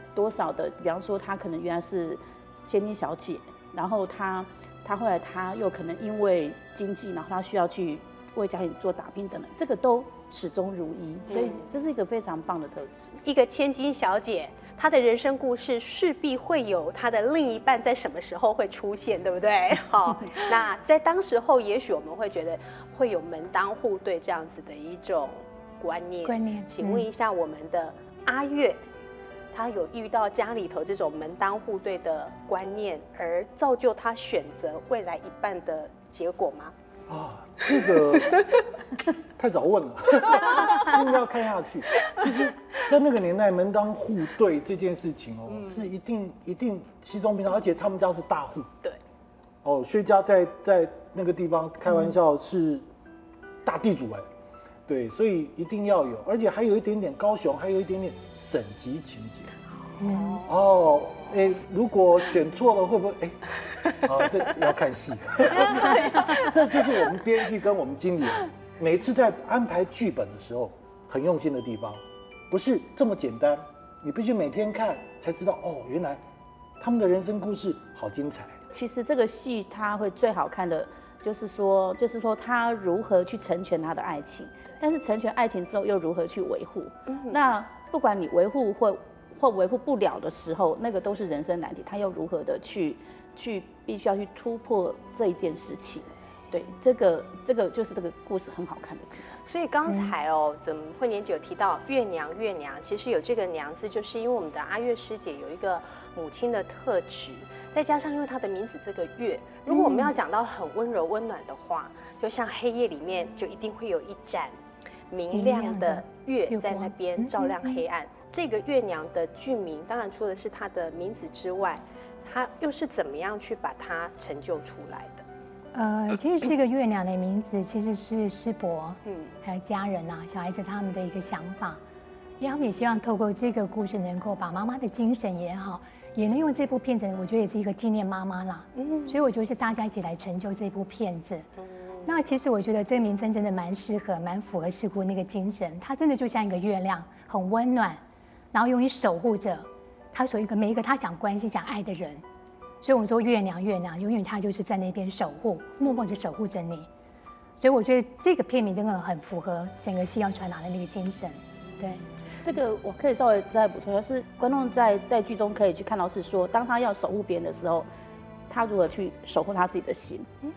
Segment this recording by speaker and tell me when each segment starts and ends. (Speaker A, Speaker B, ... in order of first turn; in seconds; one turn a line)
Speaker A: 0.1-13.2
Speaker B: 11.3-11.6
Speaker B: 13.2-28.8
Speaker C: 26.2-27.1
Speaker B: 29.5-36.7
Speaker D: 37.1-38.4
Speaker D: 39.4-48.7
Speaker B: 42.0-42.5
Speaker B: 45.5-45.9
Speaker D: 49.6-52.8
Speaker D: 53.6-54.2
Speaker D: 54.9-59.5
Speaker C: 60.0-60.4
Speaker B: 60.1-60.5
Speaker D: 60.4-76.2
Speaker B: 65.6-67.0
Speaker D: 76.8-78.5
Speaker A: 78.7-99.2
Speaker B: 87.1-87.4
Speaker B: 99.4-114.5
Speaker C: 109.7-110.1
Speaker B: 115.1-125.2
Speaker C: 115.3-117.8
Speaker C: 125.7-131.8
Speaker B: 129.1-129.3
Speaker C: 132.4-141.4
Speaker B: 138.8-139.2
Speaker C: 142.0-148.0
Speaker C: 148.5-152.2
Speaker C: 152.8-156.9
Speaker C: 157.6-162.0
Speaker A: 162.4-167.9
Speaker A: 168.5-170.3